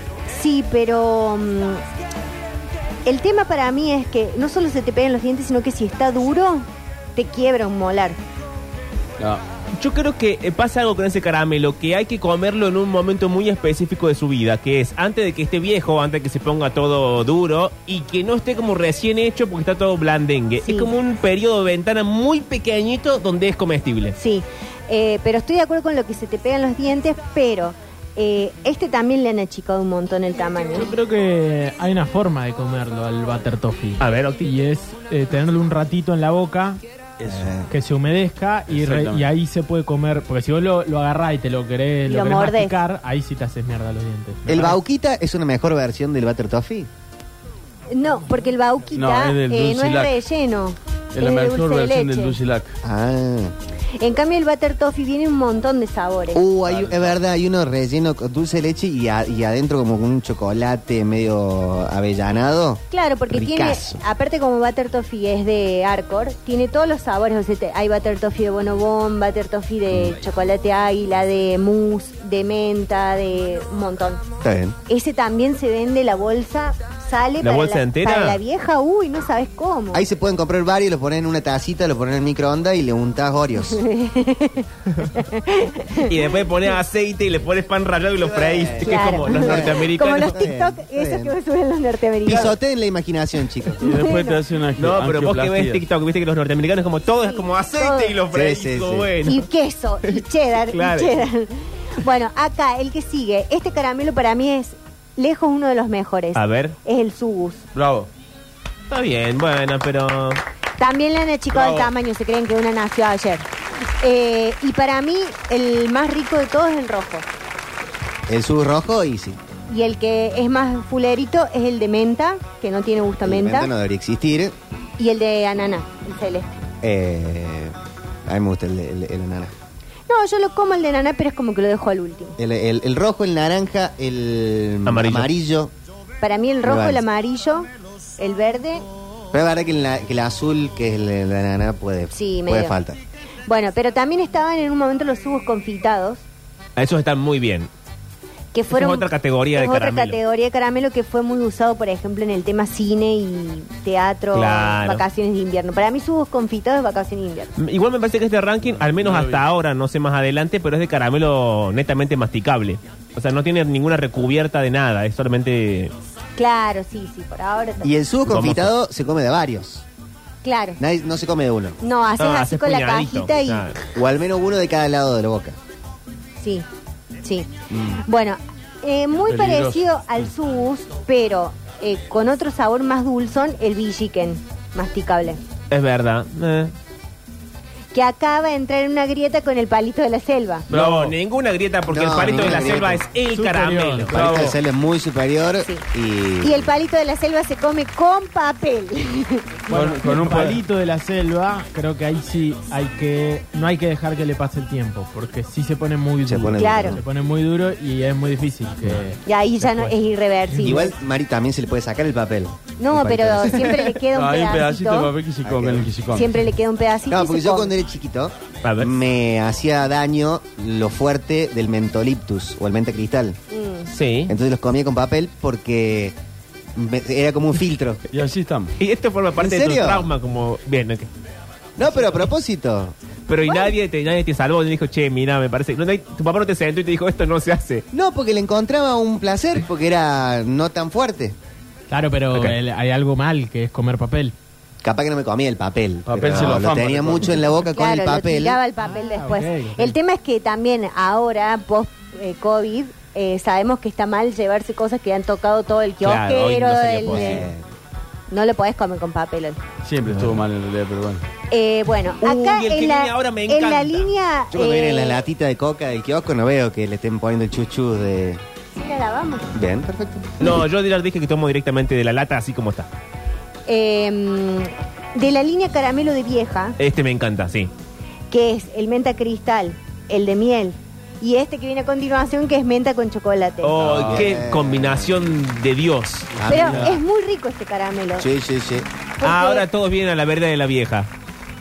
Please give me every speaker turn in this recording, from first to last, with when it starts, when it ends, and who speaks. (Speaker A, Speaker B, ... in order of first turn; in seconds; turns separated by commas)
Speaker A: 0.3-1.8, Speaker A: 3.0-8.2, Speaker B: 9.8-24.1, Speaker A: 20.6-20.9, Speaker A: 24.2-30.9, Speaker C: 30.7-36.8, Speaker B: 34.0-34.5, Speaker D: 37.2-37.6, Speaker E: 37.3-37.7, Speaker C: 37.7-44.8, Speaker D: 38.7-39.3, Speaker A: 42.1-42.7, Speaker E: 44.5-46.9, Speaker A: 47.9-52.4, Speaker D: 48.9-50.2, Speaker D: 51.1-52.8, Speaker E: 52.8-53.5, Speaker A: 54.0-56.4, Speaker E: 56.3-64.0, Speaker D: 56.6-57.2, Speaker A: 62.9-74.2, Speaker E: 74.4-74.8, Speaker A: 74.9-80.0, Speaker B: 77.4-78.4, Speaker E: 79.9-83.8, Speaker A: 83.7-86.1, Speaker B: 86.0-90.4, Speaker E: 88.2-91.3, Speaker A: 88.8-92.5, Speaker E: 92.2-93.8, Speaker A: 93.8-94.4, Speaker D: 93.8-95.8, Speaker B: 94.8-99.5, Speaker A: 97.2-98.2, Speaker E: 98.3-99.1, Speaker A: 99.2-107.6, Speaker B: 100.1-101.2, Speaker B: 106.3-106.8, Speaker D: 107.7-108.1, Speaker B: 108.9-110.4, Speaker A: 110.8-113.5, Speaker D: 111.5-111.9, Speaker A: 114.0-117.2, Speaker E: 118.3-119.4, Speaker A: 119.7-123.7, Speaker E: 123.2-124.5, Speaker A: 125.0-126.6, Speaker E: 126.8-127.7, Speaker E: 128.3-129.5, Speaker A: 130.1-132.4, Speaker E: 132.4-135.7, Speaker B: 134.8-135.3, Speaker A: 136.2-138.8, Speaker E: 136.6-137.0, Speaker E: 139.3-143.0, Speaker A: 142.1-142.7, Speaker A: 143.5-146.2, Speaker B: 146.8-147.7, Speaker A: 148.5-157.5, Speaker B: 148.7-150.2, Speaker B: 154.3-155.0, Speaker B: 157.6-165.9, Speaker D: 158.8-159.4, Speaker A: 166.4-167.9, Speaker E: 167.8-169.8, Speaker B: 168.3-168.7, Speaker A: 170.4-170.8, Speaker E: 170.8-171.8, Speaker A: 171.8-173.7, Speaker B: 172.2-173.8, Speaker E: 173.9-175.6, Speaker A: 176.4-176.7, Speaker A: 177.2-185.4, Speaker E: 177.7-178.0, Speaker D: 179.2-180.3, Speaker B: 185.7-186.7, Speaker A: 187.9-190.7, Speaker D: 190.7-191.2, Speaker B: 190.7-194.5, Speaker E: 191.9-193.1, Speaker D: 192.2-192.7, Speaker C: 193.2-194.6, Speaker D: 194.0-194.6, Speaker E: 194.1-196.7, Speaker A: 196.4-199.4, Speaker C: 199.7-209.9, Speaker D: 199.7-200.6, Speaker E: 206.2-207.0, Speaker A: 206.6-207.0, Speaker A: 209.2-210.9, Speaker C: 210.5-210.8, Speaker E: 210.6-213.8, Speaker A: 212.8-215.1, Speaker D: 214.1-216.4, Speaker E: 215.4-215.9, Speaker A: 216.1-217.7, Speaker E: 217.1-223.4, Speaker B: 218.6-218.9, Speaker A: 223.5-223.9, Speaker B: 223.9-224.3, Speaker E: 224.3-226.1, Speaker E: 226.7-228.0, Speaker D: 228.1-228.7, Speaker B: 228.8-231.1, Speaker E: 229.4-230.1, Speaker E: 231.8-232.9, Speaker B: 232.0-232.3, Speaker B: 233.3-237.8, Speaker A: 233.4-233.7, Speaker E: 237.9-241.3, Speaker C: 241.9-244.3, Speaker E: 244.8-248.6, Speaker D: 246.1-247.5, Speaker A: 247.6-257.5, Speaker C: 248.8-249.9, Speaker B: 256.0-257.5, Speaker E: 257.1-257.7, Speaker A: 258.3-259.6, Speaker D: 259.8-261.2, Speaker A: 261.5-265.2, Speaker B: 262.2-264.1, Speaker E: 264.5-268.4, Speaker A: 268.7-269.5, Speaker E: 269.5-270.3, Speaker B: 270.4-272.9, Speaker A: 273.7-276.8, Speaker B: 276.8-277.7, Speaker A: 278.3-283.8, Speaker B: 283.6-286.3, Speaker D: 283.8-284.4, Speaker E: 283.9-285.1, Speaker D: 286.3-287.0, Speaker E: 286.4-287.0, Speaker A: 286.5-288.3, Speaker E: 288.2-288.9, Speaker A: 289.2-289.6, Speaker B: 289.2-291.1